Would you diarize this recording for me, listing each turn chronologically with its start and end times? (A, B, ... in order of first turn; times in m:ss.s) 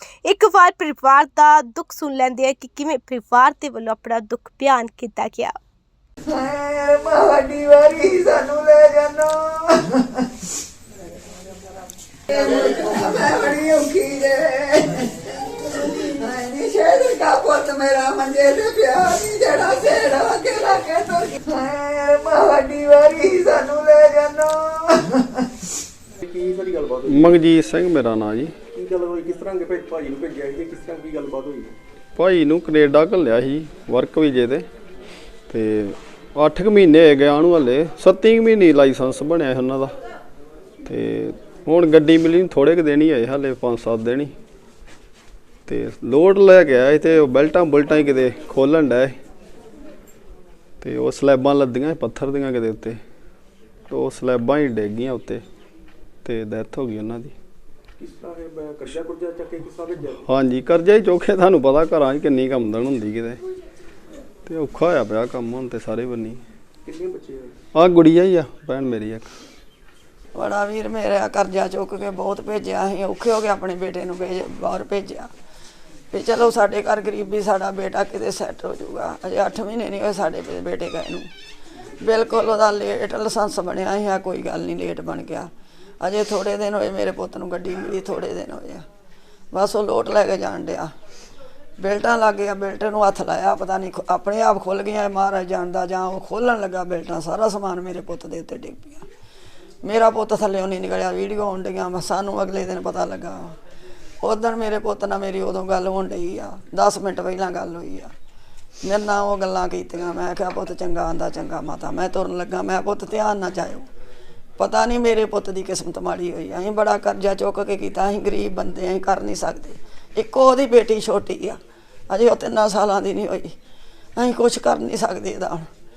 0:00.2-0:05.6 A
0:06.3-0:09.7 B
0:12.3-0:25.3 B
0:26.2-0:27.4 C
0:27.1-0:28.6 D
0:28.7-0:31.8 C
0:32.2-0:34.7 D
0:35.5-0:39.9 D
0:40.9-0:44.3 D
0:45.7-0:49.2 D
0:50.8-0:53.0 D
0:53.9-0:55.4 D
0:56.2-0:57.3 D
0:58.0-1:00.2 C
1:00.2-1:03.4 D
1:04.5-1:06.4 D
1:06.8-1:07.6 C
1:07.8-1:09.3 D
1:10.4-1:15.3 B
1:16.1-1:21.3 B
1:22.0-1:25.5 B
1:26.0-1:28.8 B
1:29.5-1:30.9 B
1:31.8-1:39.0 B
1:39.8-1:43.6 B
1:44.2-1:48.1 B
1:48.8-1:53.9 B
1:54.6-2:01.6 B
2:02.1-2:03.5 B
2:04.2-2:05.7 B